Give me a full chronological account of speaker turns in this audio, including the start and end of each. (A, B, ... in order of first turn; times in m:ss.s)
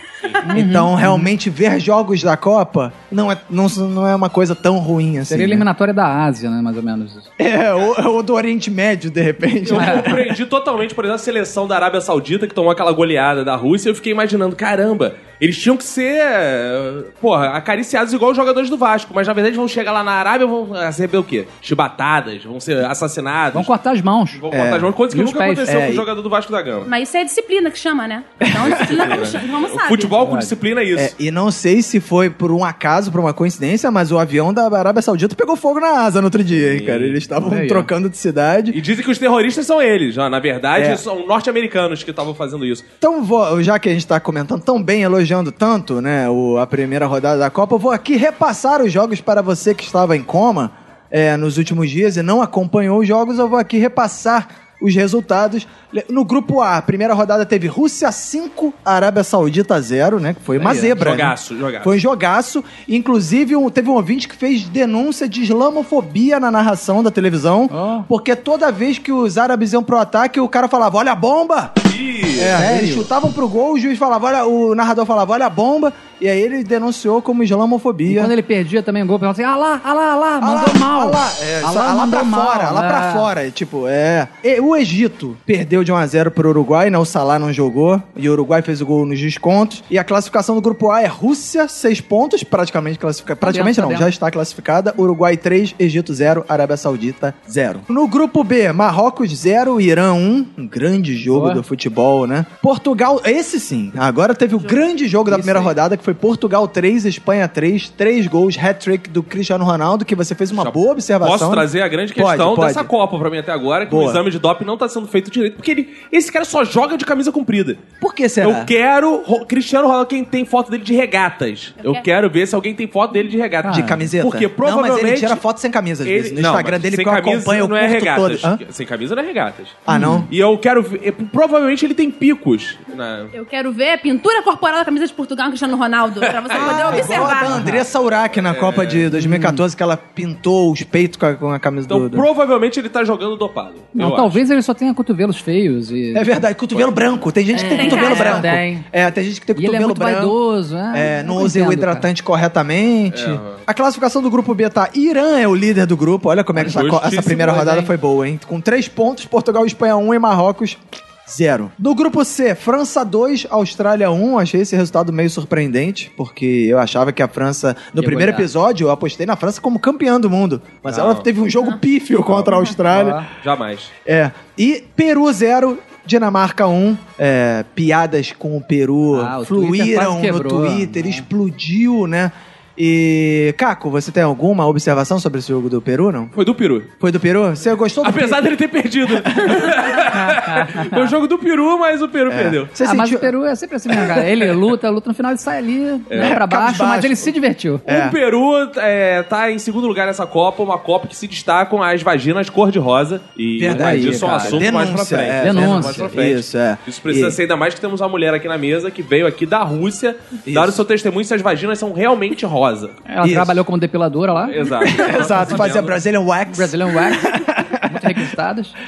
0:00.4-0:01.3 A
0:00.5-0:05.7 B
0:05.3-0:07.3 A
0:07.4-0:10.3 B
0:09.6-0:23.7 C
0:09.7-0:10.1 A
0:23.5-0:24.4 A
0:24.3-0:26.9 C
0:24.5-0:24.9 B
0:25.1-0:25.7 A
0:25.6-0:26.1 B
0:26.8-0:30.2 D
0:28.4-0:29.2 B
0:28.6-0:31.1 C
0:30.2-0:30.5 A
0:30.9-0:38.8 B
0:36.5-0:37.2 C
0:37.4-0:37.9 A
0:38.7-0:42.8 C
0:40.7-0:41.0 B
0:43.0-1:11.7 B
1:00.6-1:01.0 A
1:01.0-1:02.0 C
1:07.7-1:08.1 A
1:11.9-1:12.6 C
1:12.3-1:18.3 B
1:12.6-1:13.1 A
1:18.1-1:23.3 A
1:20.4-1:52.9 B
1:33.4-1:34.1 A
1:41.3-1:41.6 A
1:45.3-1:45.7 A
1:50.5-1:57.8 C
1:53.9-1:54.2 B
1:58.0-1:58.7 B
1:58.4-2:05.4 C
2:03.6-2:04.1 A
2:03.7-2:08.6 B
2:06.0-2:13.3 C
2:09.8-2:10.3 B
2:09.9-2:10.3 A
2:13.3-2:17.6 D
2:16.2-2:17.3 C
2:16.5-2:22.3 B
2:17.1-2:17.8 A
2:18.4-2:19.1 C
2:19.1-2:19.6 A
2:21.9-2:24.4 C
2:24.0-2:26.3 A
2:26.1-2:30.3 B
2:27.5-2:28.8 A
2:27.7-2:28.4 D
2:29.6-2:32.1 A
2:30.9-2:53.2 B
2:33.1-2:33.6 C
2:36.6-2:37.9 C
2:48.0-2:48.5 A
2:50.8-2:51.3 C
2:52.3-2:53.9 C
2:52.9-2:53.2 A
2:54.0-3:06.3 B
2:59.1-3:01.2 A
3:06.3-3:06.9 C
3:07.0-3:08.4 B
3:08.0-3:12.7 C
3:09.1-3:09.8 B
3:10.1-3:11.1 A
3:12.3-3:13.3 B
3:12.8-3:17.8 A
3:16.1-3:16.4 C
3:16.2-3:17.3 B
3:17.8-3:18.2 B
3:17.8-3:33.0 C
3:23.6-3:27.4 B
3:23.7-3:24.6 A
3:25.4-3:26.1 A
3:30.4-3:30.8 B
3:33.1-3:34.6 A
3:33.2-3:33.6 B
3:34.4-3:36.0 C
3:34.8-3:38.3 B
3:35.1-3:35.4 A
3:36.5-3:38.7 A